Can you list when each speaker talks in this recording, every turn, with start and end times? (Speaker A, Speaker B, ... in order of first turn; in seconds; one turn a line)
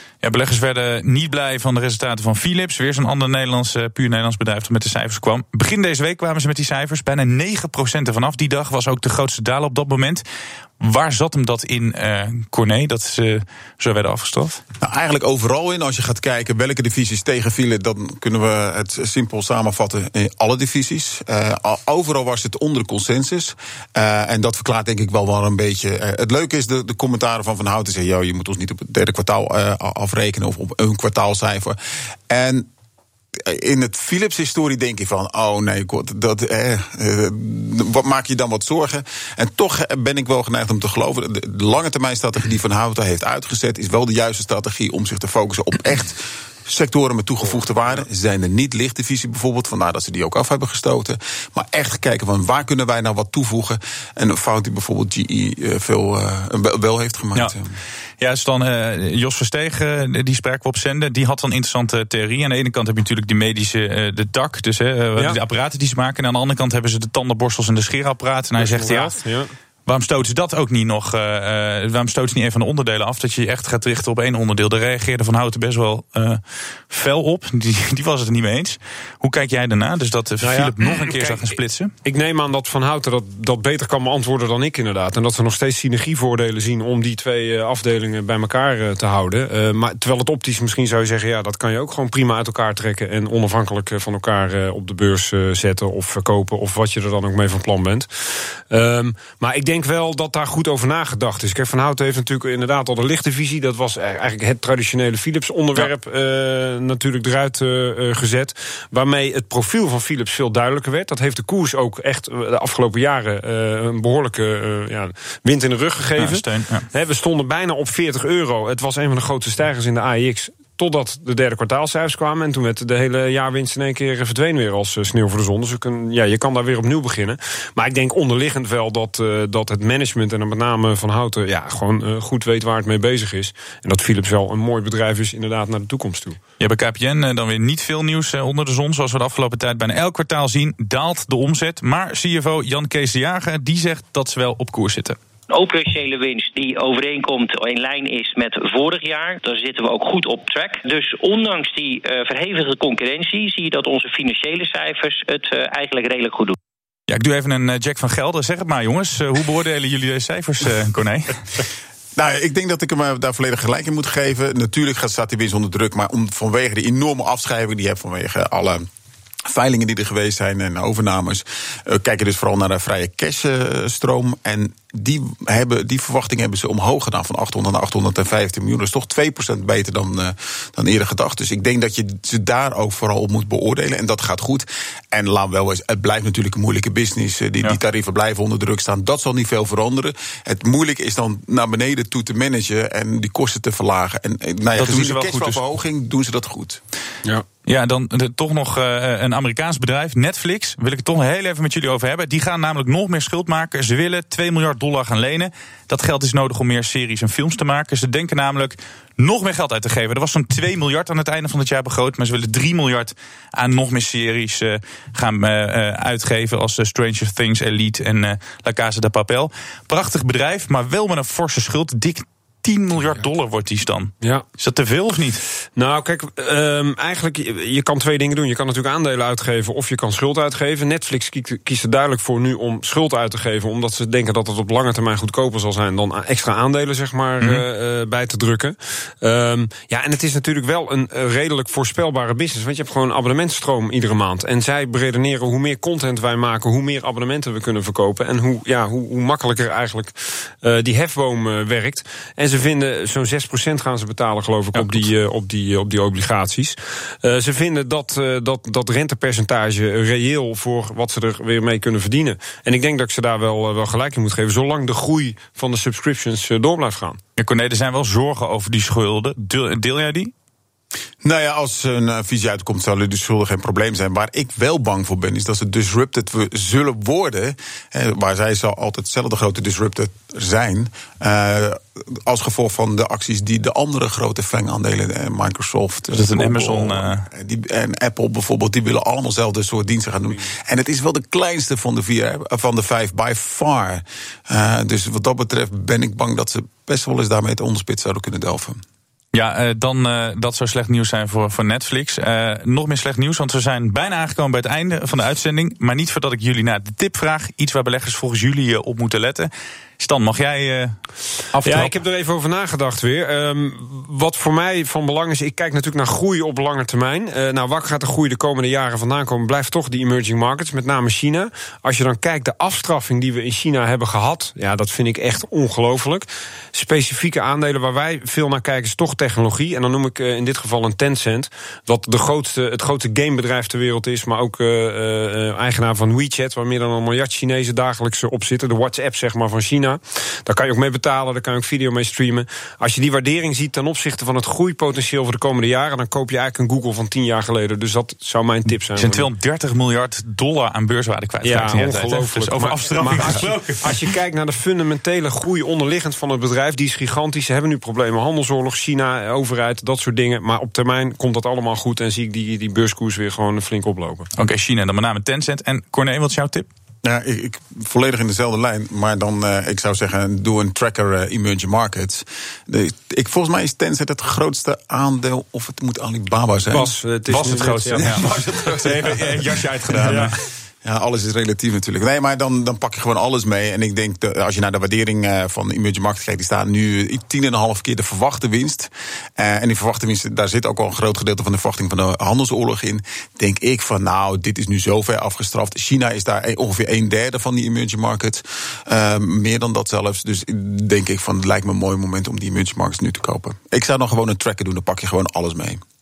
Speaker A: 0.2-10.2
Speaker A: 10.8-14.6
Speaker B: 14.8-31.8
Speaker B: 32.3-32.7
Speaker B: 33.4-57.8
Speaker A: 58.2-69.1
Speaker C: 68.6-69.5
Speaker A: 69.9-81.9
Speaker C: 80.4-136.4
Speaker A: 116.2-116.9
Speaker A: 136.6-145.2
Speaker D: 145.5-156.6
Speaker A: 157.1-161.6
Speaker B: 162.2-168.9
Speaker B: 169.5-196.8
Speaker A: 194.8-195.6
Speaker A: 197.7-225.4
Speaker C: 225.8-267.2
Speaker A: 254.8-255.0
Speaker A: 267.4-270.3
Speaker B: 271.2-298.8
Speaker A: 286.1-287.3
Speaker A: 299.3-311.0
Speaker A: 311.5-311.9
Speaker C: 311.6-349.3
Speaker A: 349.0-354.0
Speaker C: 351.4-364.3
Speaker A: 364.4-366.7
Speaker B: 367.0-376.9
Speaker C: 376.7-378.2
Speaker A: 377.3-380.4
Speaker B: 377.9-380.3
Speaker C: 380.0-380.3
Speaker B: 380.8-405.8